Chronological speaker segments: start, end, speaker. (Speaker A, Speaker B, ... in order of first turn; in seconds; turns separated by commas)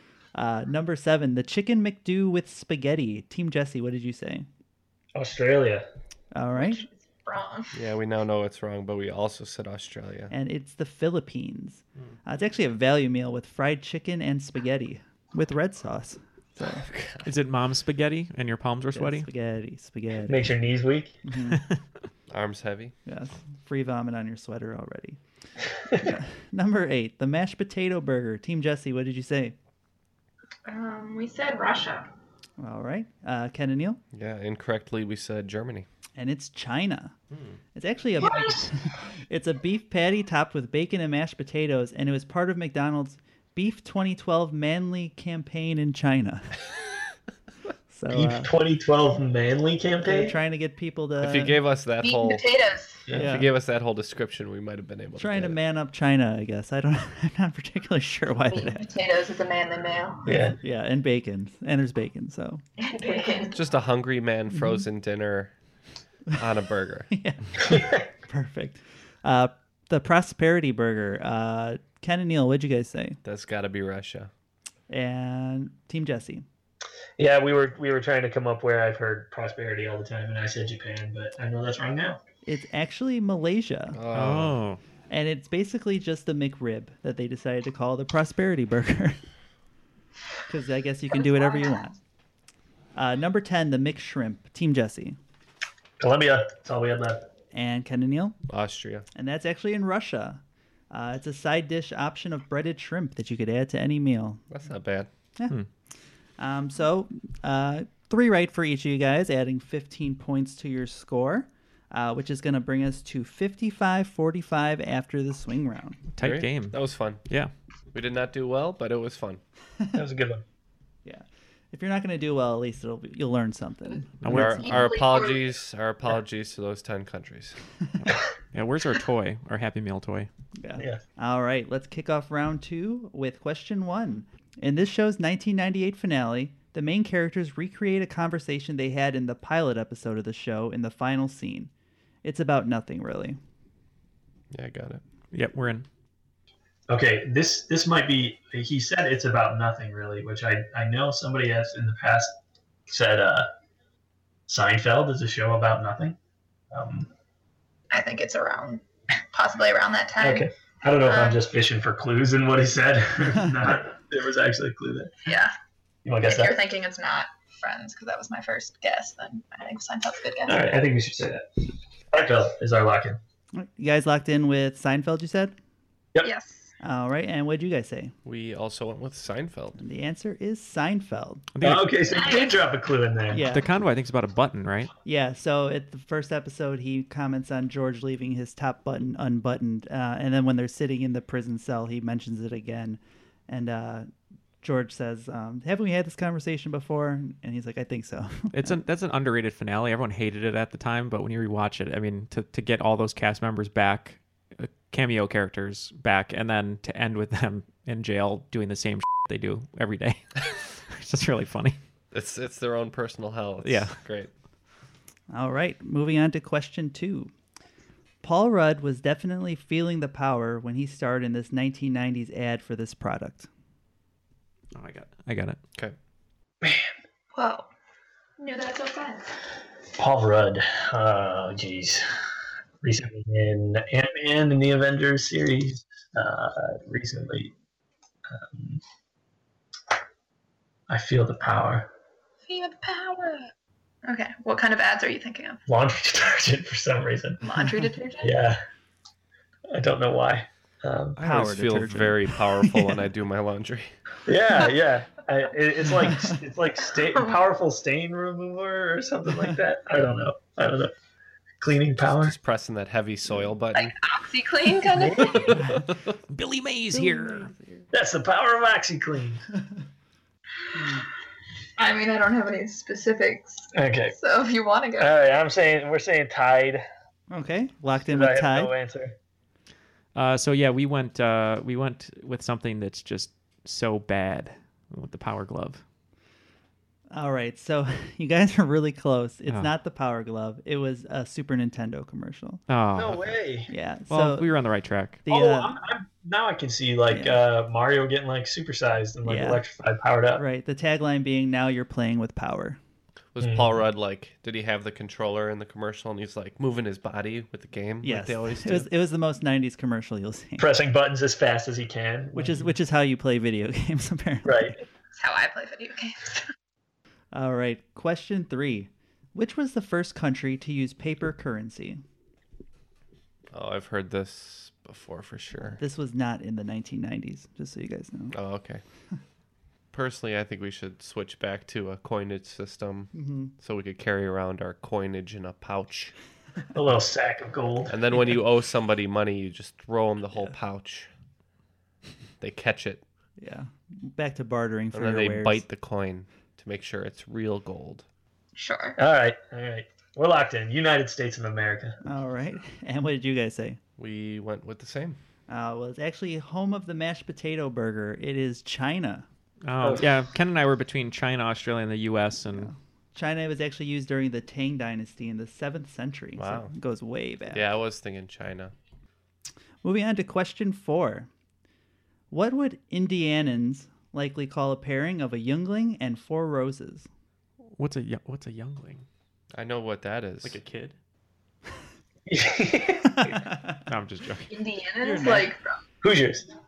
Speaker A: 0.3-4.5, Speaker B: 5.1-5.8, Speaker A: 6.3-6.8, Speaker C: 6.5-7.7, Speaker D: 7.7-10.3, Speaker A: 10.3-16.8, Speaker D: 16.6-17.3, Speaker E: 17.2-19.3, Speaker A: 18.9-20.5, Speaker B: 20.2-21.1, Speaker A: 21.2-21.6, Speaker D: 22.3-22.9, Speaker A: 23.1-25.2, Speaker A: 26.0-29.5, Speaker C: 30.7-32.1, Speaker A: 32.6-34.0, Speaker D: 34.1-35.9, Speaker A: 36.1-37.1, Speaker A: 37.7-46.5, Speaker C: 38.2-38.6, Speaker A: 47.9-48.5, Speaker B: 48.1-50.4, Speaker A: 50.0-51.6, Speaker D: 51.2-52.4, Speaker C: 52.0-53.0, Speaker A: 53.1-53.5, Speaker D: 53.2-55.6, Speaker A: 55.2-58.9, Speaker C: 58.5-60.3, Speaker B: 60.2-60.5, Speaker A: 60.6-62.6, Speaker C: 62.8-63.6, Speaker D: 63.5-65.5, Speaker D: 66.3-67.1, Speaker A: 67.1-73.2, Speaker B: 67.7-68.0, Speaker D: 73.2-74.3, Speaker A: 74.9-76.4, Speaker B: 77.2-82.2, Speaker A: 82.4-84.0, Speaker D: 83.9-84.6, Speaker E: 84.1-84.8, Speaker A: 85.1-89.2, Speaker A: 90.5-92.0, Speaker C: 91.1-91.9, Speaker A: 92.9-95.2, Speaker B: 96.0-97.3, Speaker A: 97.5-98.3, Speaker D: 98.5-99.0, Speaker A: 99.1-104.4, Speaker D: 104.5-105.1, Speaker A: 106.4-116.0, Speaker E: 116.1-117.5, Speaker D: 116.2-117.2, Speaker D: 117.9-119.4, Speaker B: 119.9-120.4, Speaker A: 121.0-124.8, Speaker E: 124.2-124.6, Speaker D: 124.3-127.5, Speaker C: 124.6-125.5, Speaker E: 128.1-130.3, Speaker A: 130.6-141.7, Speaker A: 142.2-143.4, Speaker D: 144.5-145.0, Speaker E: 145.3-145.8, Speaker B: 146.9-152.3, Speaker B: 152.9-153.5, Speaker B: 154.5-156.2, Speaker B: 156.7-157.1, Speaker C: 157.9-160.5, Speaker B: 160.2-165.2, Speaker C: 161.0-161.4, Speaker C: 165.2-165.5, Speaker B: 166.0-166.6, Speaker C: 166.2-170.7, Speaker B: 170.4-171.4, Speaker B: 172.1-173.2, Speaker A: 173.5-175.5, Speaker C: 176.2-176.7, Speaker A: 176.8-178.1, Speaker D: 178.2-179.8, Speaker A: 179.8-181.5, Speaker E: 181.6-181.9, Speaker B: 181.6-183.4, Speaker C: 182.1-182.6, Speaker A: 183.3-183.7, Speaker E: 183.4-184.9, Speaker A: 185.0-194.1, Speaker A: 194.6-198.8, Speaker E: 198.5-211.8, Speaker D: 212.1-214.3, Speaker E: 213.6-214.0, Speaker A: 215.3-217.3, Speaker A: 218.2-223.5, Speaker E: 224.7-225.6, Speaker C: 227.3-227.7, Speaker C: 228.4-229.3, Speaker B: 230.0-232.0, Speaker B: 232.8-237.5, Speaker B: 238.3-238.8, Speaker B: 240.9-241.9, Speaker C: 242.4-243.5, Speaker C: 244.0-245.6, Speaker B: 245.7-247.4, Speaker C: 247.4-248.4, Speaker B: 248.2-248.6, Speaker B: 249.7-251.2, Speaker A: 251.2-253.0, Speaker D: 251.2-253.9, Speaker B: 254.2-260.9, Speaker B: 261.6-262.3, Speaker D: 262.2-263.9, Speaker C: 263.7-265.5, Speaker B: 264.9-265.3, Speaker D: 265.2-265.9, Speaker E: 266.3-267.5, Speaker A: 266.9-267.9, Speaker B: 267.9-269.4, Speaker A: 270.7-271.1, Speaker C: 271.8-275.1, Speaker B: 273.7-274.1, Speaker B: 275.0-276.8, Speaker A: 277.3-278.7, Speaker B: 278.0-279.1, Speaker E: 280.1-285.8, Speaker A: 287.1-292.6, Speaker E: 289.5-289.7, Speaker E: 292.7-293.4, Speaker B: 292.9-293.7, Speaker A: 293.7-294.4, Speaker E: 294.1-295.2, Speaker A: 295.2-295.8, Speaker B: 295.3-300.4, Speaker A: 297.1-297.4, Speaker A: 299.2-299.6, Speaker A: 300.4-302.8, Speaker D: 303.3-308.9, Speaker B: 303.4-303.7, Speaker A: 308.0-310.7, Speaker B: 310.6-312.7, Speaker A: 312.3-314.8, Speaker B: 314.4-314.8, Speaker C: 315.1-316.4, Speaker A: 317.3-322.0, Speaker D: 323.5-325.8, Speaker A: 325.8-328.4, Speaker D: 328.3-328.8, Speaker D: 329.9-336.1, Speaker A: 333.1-333.5, Speaker B: 336.7-338.2, Speaker D: 337.9-341.1, Speaker D: 342.4-343.0, Speaker A: 343.4-345.6, Speaker D: 344.9-348.1, Speaker C: 348.6-349.0, Speaker B: 349.0-352.0, Speaker A: 352.0-353.8, Speaker D: 354.0-355.2, Speaker A: 355.5-359.2, Speaker E: 359.6-362.7, Speaker B: 359.8-360.1, Speaker A: 362.5-367.7, Speaker D: 366.4-366.7, Speaker D: 367.5-368.7, Speaker A: 369.8-371.3, Speaker A: 372.3-377.1, Speaker E: 377.8-379.0, Speaker D: 379.5-380.6, Speaker E: 380.4-380.9, Speaker B: 382.3-383.3, Speaker A: 383.2-383.8, Speaker E: 383.9-384.5, Speaker C: 384.5-385.8, Speaker A: 385.0-385.5, Speaker B: 386.0-386.5